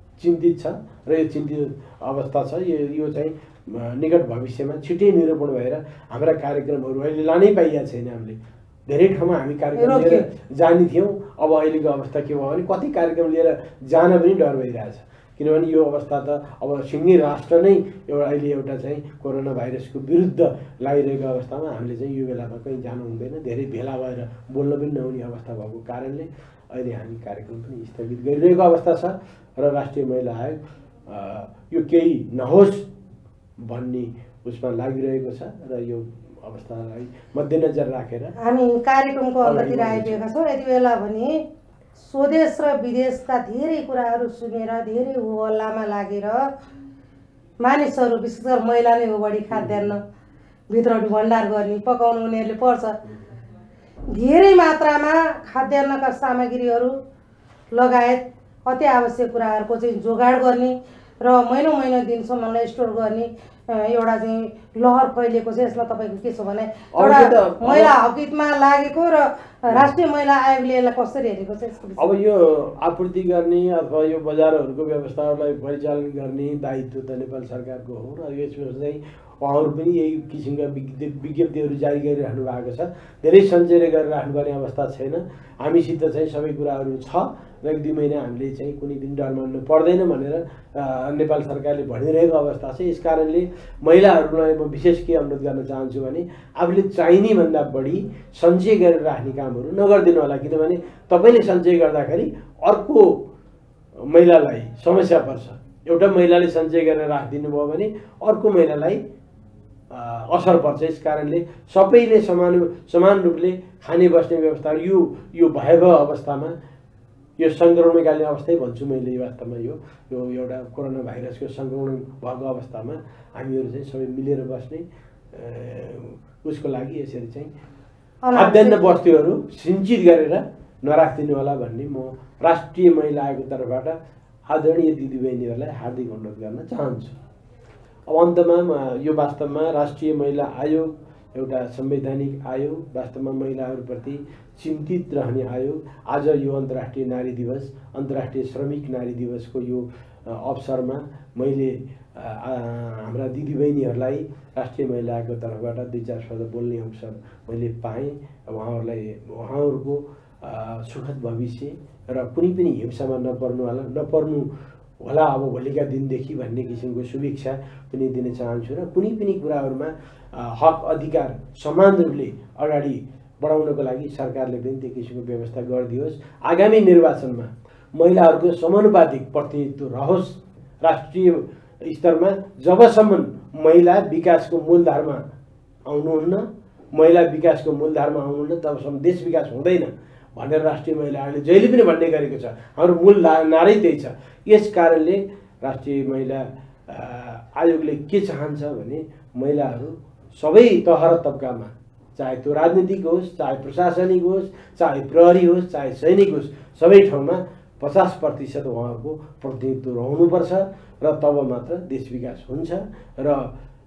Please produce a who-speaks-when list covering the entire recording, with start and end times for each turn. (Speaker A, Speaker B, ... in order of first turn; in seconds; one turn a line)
Speaker A: 0.2-32.9
Speaker B: 9.8-10.3
Speaker A: 33.6-38.3
Speaker B: 38.4-41.4
Speaker A: 39.4-40.2
Speaker B: 42.0-46.4
Speaker B: 47.6-50.0
Speaker A: 49.5-49.9
Speaker B: 50.7-53.0
Speaker B: 54.1-56.9
Speaker B: 57.7-72.1
Speaker A: 66.9-68.0
Speaker A: 72.0-103.2
Speaker A: 104.0-109.0
Speaker A: 109.9-116.5
Speaker A: 117.4-127.5
Speaker B: 128.2-128.9
Speaker A: 128.3-134.0
Speaker A: 134.5-137.2
Speaker A: 138.1-164.5
Speaker A: 165.0-185.2
Speaker A: 185.9-213.5